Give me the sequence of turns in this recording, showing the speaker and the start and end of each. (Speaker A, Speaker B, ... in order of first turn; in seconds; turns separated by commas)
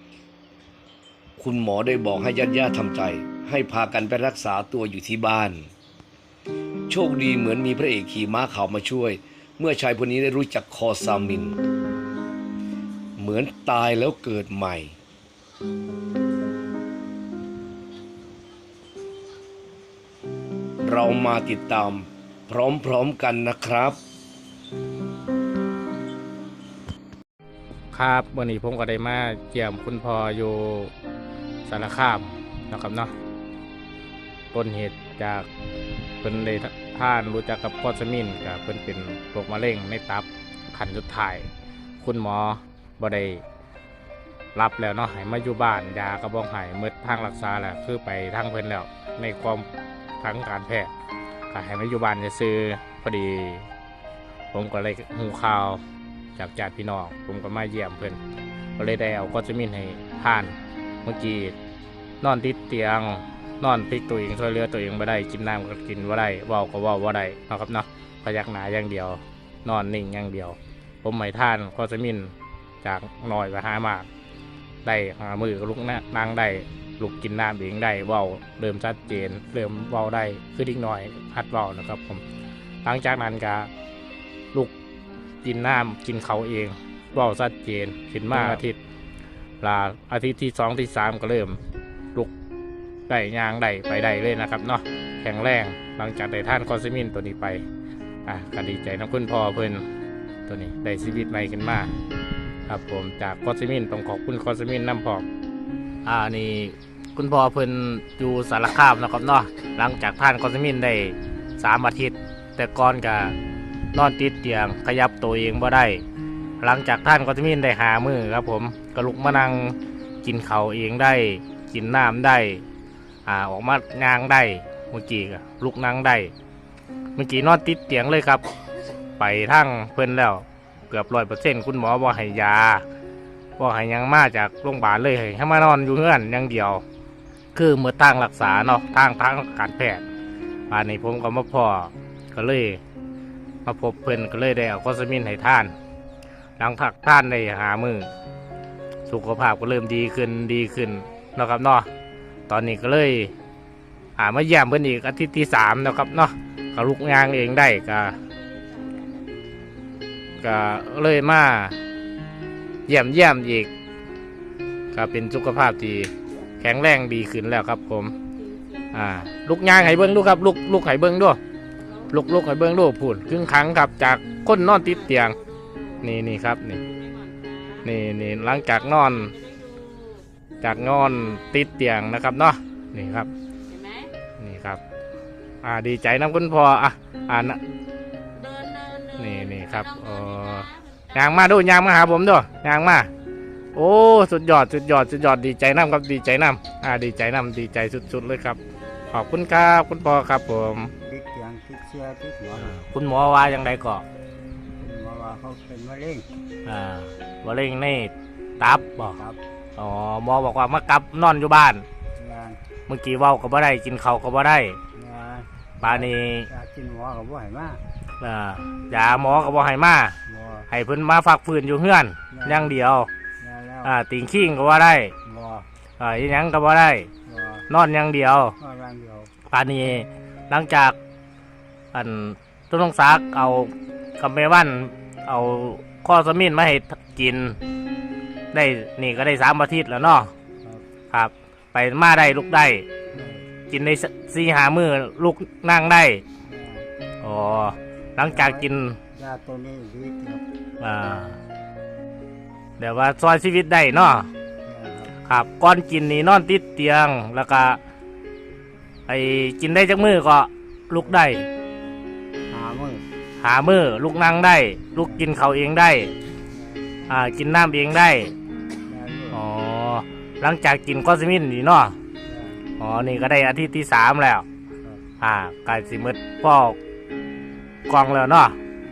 Speaker A: 1.4-5.7, Speaker A: 6.9-11.6, Speaker A: 13.2-14.9, Speaker A: 20.8-24.0, Speaker B: 27.9-30.9, Speaker B: 31.6-33.1, Speaker B: 34.5-35.5, Speaker B: 36.2-41.5, Speaker B: 42.0-43.4, Speaker B: 44.5-49.7, Speaker B: 50.2-50.9, Speaker B: 51.5-53.7, Speaker B: 54.5-55.8, Speaker B: 56.4-58.2, Speaker B: 58.8-61.5, Speaker B: 62.2-74.1, Speaker B: 74.8-82.2, Speaker B: 82.8-83.7, Speaker B: 85.4-88.8, Speaker B: 89.6-91.6, Speaker B: 93.1-97.6, Speaker B: 98.2-99.8, Speaker B: 100.5-101.9, Speaker B: 102.7-105.2, Speaker B: 106.0-113.3, Speaker B: 113.9-116.0, Speaker B: 116.6-122.6, Speaker B: 123.2-126.3, Speaker B: 127.2-128.4, Speaker B: 129.2-132.8, Speaker B: 133.6-136.8, Speaker B: 137.5-140.0, Speaker B: 140.7-142.8, Speaker B: 143.6-145.7, Speaker B: 146.6-148.1, Speaker B: 149.1-151.9, Speaker B: 152.5-153.3, Speaker B: 154.2-158.2, Speaker B: 160.4-161.8, Speaker B: 162.9-163.7, Speaker B: 164.9-168.1, Speaker B: 168.9-171.4, Speaker B: 172.1-175.4, Speaker B: 176.0-176.8, Speaker B: 177.8-179.4, Speaker B: 180.6-183.3, Speaker B: 184.4-184.8, Speaker B: 185.6-187.6, Speaker B: 189.2-193.1, Speaker B: 193.7-198.6, Speaker B: 199.1-200.9, Speaker C: 201.1-202.7, Speaker B: 202.5-204.0, Speaker C: 204.8-206.3, Speaker B: 206.6-209.2, Speaker B: 209.8-211.8, Speaker C: 212.2-212.6, Speaker B: 212.9-214.8, Speaker C: 214.9-215.5, Speaker B: 215.8-216.5, Speaker C: 216.5-217.8, Speaker B: 218.2-220.2, Speaker C: 220.3-220.7, Speaker B: 220.7-223.1, Speaker C: 222.4-222.7, Speaker C: 223.4-223.9, Speaker B: 223.8-225.1, Speaker C: 225.2-225.7, Speaker B: 226.0-227.1, Speaker C: 227.3-227.6, Speaker B: 227.7-228.6, Speaker C: 228.6-229.3, Speaker B: 229.5-230.9, Speaker B: 231.9-237.6, Speaker B: 238.5-240.3, Speaker B: 241.1-242.8, Speaker C: 243.1-243.4, Speaker B: 243.7-246.2, Speaker C: 246.5-246.9, Speaker B: 247.2-249.0, Speaker C: 248.3-248.6, Speaker C: 249.1-250.4, Speaker B: 250.8-251.4, Speaker B: 252.8-254.3, Speaker C: 254.7-255.1, Speaker B: 255.2-257.8, Speaker B: 259.1-261.5, Speaker C: 262.5-263.0, Speaker B: 263.4-266.1, Speaker C: 266.6-266.8, Speaker B: 267.1-268.3, Speaker C: 268.9-269.4, Speaker B: 269.3-271.9, Speaker C: 272.3-272.6, Speaker B: 272.8-274.4, Speaker B: 275.2-276.8, Speaker B: 277.9-278.6